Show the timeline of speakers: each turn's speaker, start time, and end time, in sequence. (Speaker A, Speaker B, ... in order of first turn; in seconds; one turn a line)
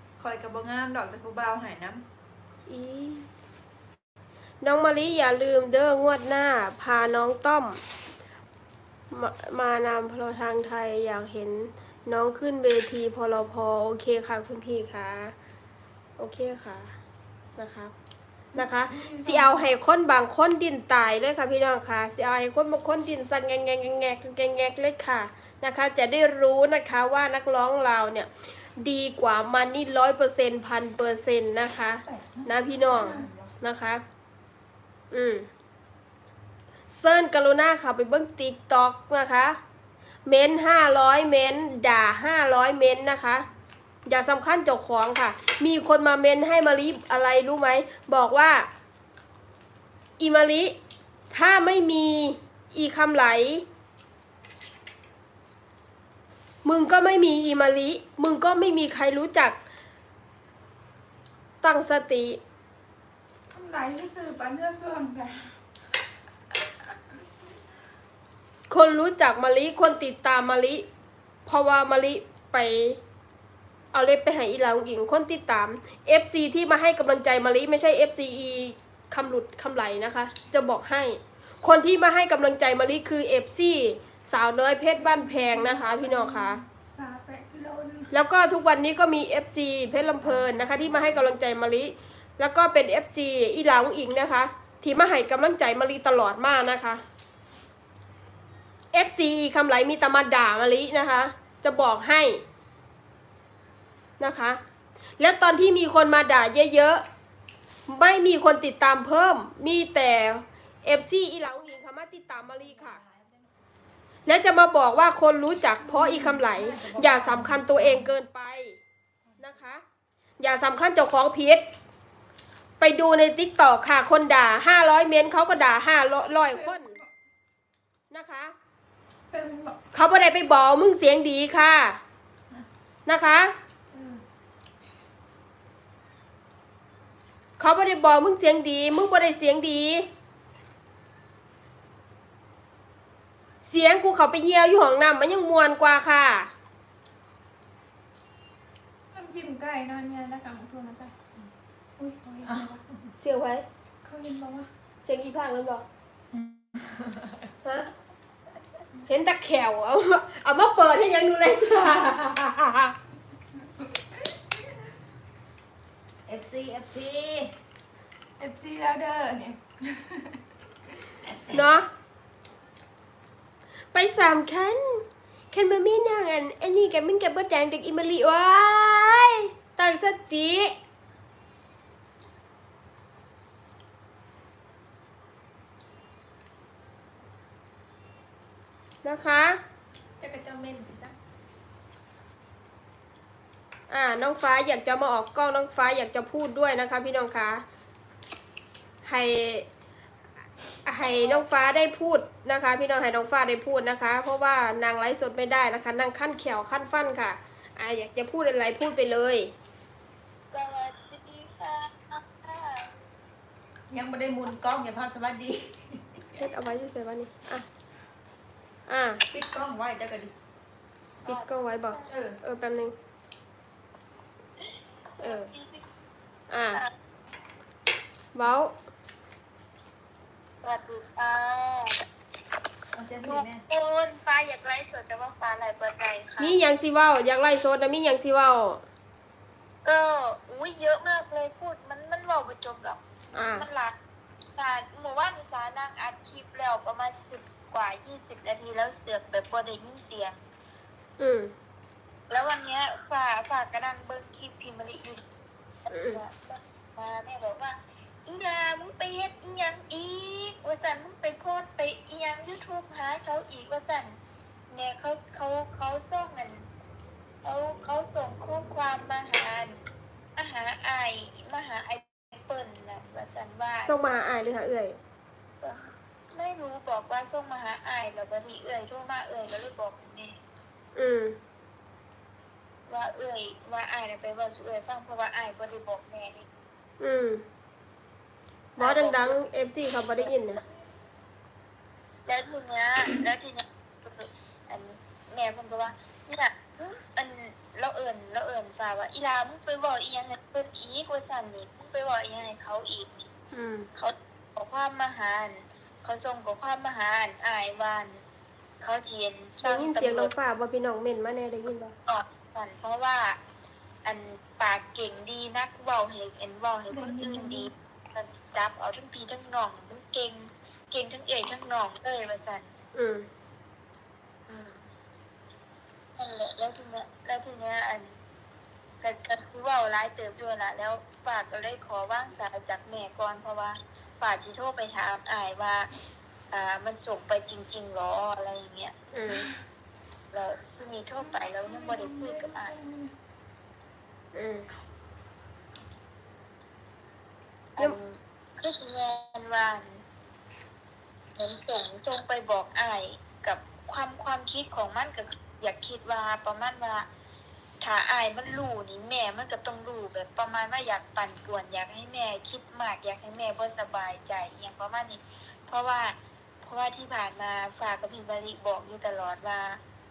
Speaker A: 0.2-2.0
Speaker B: 2.7-3.3
Speaker B: 4.6-7.8
Speaker B: 9.1-15.3
Speaker B: 16.2-16.9
Speaker B: 17.6-17.9
Speaker C: 18.5-19.6
Speaker B: 18.6-34.0
Speaker A: 32.2-33.3
Speaker C: 32.9-33.4
Speaker B: 35.1-35.5
Speaker B: 36.9-39.6
Speaker B: 40.3-43.4
Speaker B: 44.1-48.7
Speaker B: 50.2-50.8
Speaker B: 51.3-53.6
Speaker B: 56.6-59.5
Speaker B: 61.6-62.4
Speaker C: 63.5-65.5
Speaker B: 68.7-70.9
Speaker B: 71.5-73.0
Speaker B: 73.9-86.6
Speaker C: 85.0-88.1
Speaker B: 88.1-97.0
Speaker B: 98.9-102.4
Speaker B: 104.2-104.6
Speaker B: 105.2-107.0
Speaker B: 107.9-113.0
Speaker A: 112.6-113.4
Speaker B: 114.3-118.8
Speaker A: 116.0-118.0
Speaker C: 116.1-116.5
Speaker B: 119.4-119.8
Speaker B: 120.4-121.6
Speaker B: 122.8-127.0
Speaker C: 126.5-127.1
Speaker B: 128.1-128.5
Speaker C: 129.3-129.8
Speaker B: 129.9-132.0
Speaker B: 133.1-133.5
Speaker C: 133.9-134.2
Speaker B: 137.6-140.1
Speaker B: 143.6-146.5
Speaker C: 149.1-151.2
Speaker C: 152.0-152.8
Speaker A: 152.5-152.7
Speaker B: 153.2-153.7
Speaker C: 154.0-154.7
Speaker B: 155.0-155.8
Speaker A: 156.3-157.3
Speaker B: 157.6-157.9
Speaker B: 159.1-162.9
Speaker A: 166.3-167.5
Speaker C: 168.4-170.4
Speaker A: 171.2-171.7
Speaker B: 171.5-171.9
Speaker B: 173.9-180.8
Speaker B: 189.0-189.6
Speaker A: 190.2-191.1
Speaker B: 193.9-197.6
Speaker B: 199.0-199.7
Speaker B: 200.8-209.5
Speaker D: 201.0-201.5
Speaker D: 210.5-212.9
Speaker A: 213.9-216.0
Speaker B: 216.4-217.7
Speaker B: 218.9-219.2
Speaker A: 219.3-220.3
Speaker D: 221.3-222.2
Speaker B: 221.3-223.0
Speaker A: 222.1-222.4
Speaker D: 225.1-225.9
Speaker B: 225.2-225.5
Speaker B: 226.5-226.8
Speaker B: 228.3-228.7
Speaker D: 230.6-232.0
Speaker A: 232.9-233.6
Speaker D: 233.2-236.6
Speaker B: 236.4-238.8
Speaker D: 239.8-243.9
Speaker B: 243.3-243.7
Speaker D: 244.6-250.4
Speaker B: 251.2-251.5
Speaker D: 252.3-255.2
Speaker D: 255.9-264.2
Speaker B: 255.9-256.2
Speaker D: 264.7-266.7
Speaker D: 267.4-269.8
Speaker D: 270.4-273.9
Speaker B: 273.9-275.0
Speaker D: 275.6-280.3
Speaker B: 280.9-281.4
Speaker D: 282.9-286.5
Speaker B: 287.0-287.4
Speaker D: 288.8-289.4
Speaker B: 288.8-290.6
Speaker D: 292.3-303.3
Speaker B: 303.5-303.9
Speaker D: 303.9-308.2
Speaker D: 308.8-310.3
Speaker B: 309.6-311.9
Speaker D: 312.1-313.4
Speaker D: 314.1-322.7
Speaker C: 316.9-317.5
Speaker A: 317.2-317.7
Speaker B: 322.9-323.3
Speaker D: 324.5-324.8
Speaker D: 326.2-328.2
Speaker D: 329.0-335.9
Speaker D: 336.5-338.9
Speaker B: 339.1-339.5
Speaker D: 340.3-342.7
Speaker C: 341.2-343.1
Speaker B: 344.3-344.7
Speaker D: 347.8-350.0
Speaker D: 351.4-357.1
Speaker D: 357.8-369.8